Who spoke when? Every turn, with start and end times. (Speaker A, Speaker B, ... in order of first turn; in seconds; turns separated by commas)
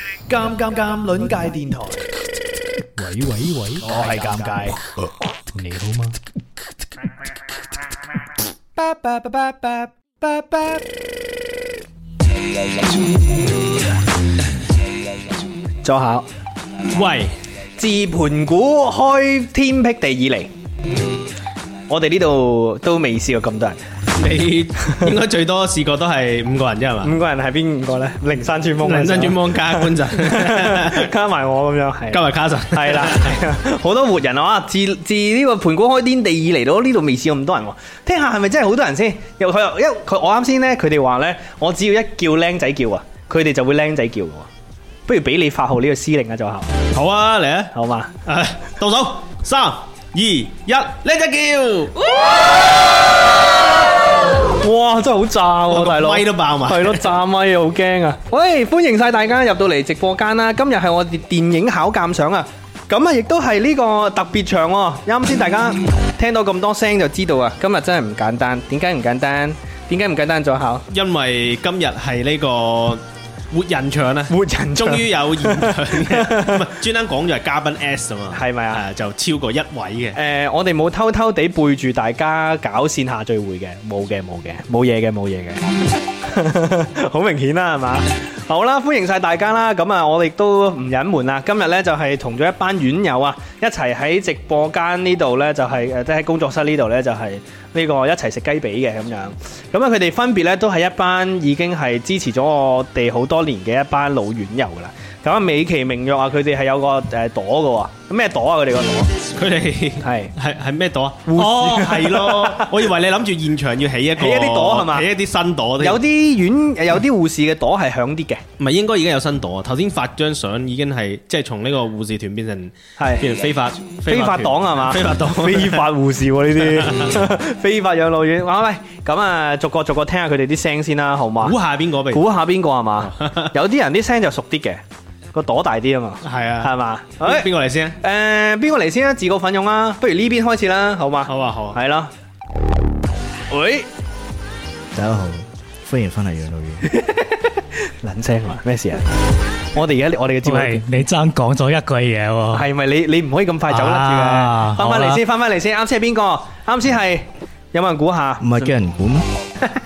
Speaker A: 0.3-2.0, Speaker A: 3.0-4.8, Speaker B: 3.9-4.6, Speaker A: 5.5-6.1, Speaker A: 8.8-10.9, Speaker A: 15.8-16.2, Speaker C: 16.9-17.3, Speaker A: 17.8-20.5, Speaker A: 21.9-23.8, Speaker C: 24.2-27.1, Speaker A: 27.0-44.5, Speaker C: 28.8-31.1, Speaker C: 32.1-33.3, Speaker A: 45.1-46.7, Speaker C: 46.9-47.7, Speaker A: 47.7-48.1, Speaker C: 48.2-52.1, Speaker A: 54.4-70.8, Speaker C: 55.7-57.1, Speaker C: 70.9-80.2, Speaker A: 74.3-76.6, Speaker A: 78.3-78.8, Speaker A: 80.1-85.6, Speaker A: 86.2-109.1, Speaker C: 109.3-116.0, Speaker A: 110.0-110.3, Speaker A: 111.2-112.8, Speaker A: 114.2-115.1, Speaker A: 115.8-118.4, Speaker C: 118.6-125.9, Speaker A: 123.0-123.2, Speaker A: 124.1-131.6, Speaker C: 126.6-127.1, Speaker C: 131.4-132.2, Speaker A: 132.1-134.8, Speaker C: 133.0-133.5, Speaker A: 135.3-137.5, Speaker C: 136.2-138.0, Speaker A: 138.0-142.1, Speaker C: 141.3-141.8, Speaker A: 143.5-143.9, Speaker D: 144.9-146.9, Speaker A: 146.9-149.1, Speaker A: 149.7-150.8, Speaker B: 150.4-152.7, Speaker A: 152.5-158.7, Speaker B: 153.7-155.2, Speaker D: 158.4-159.2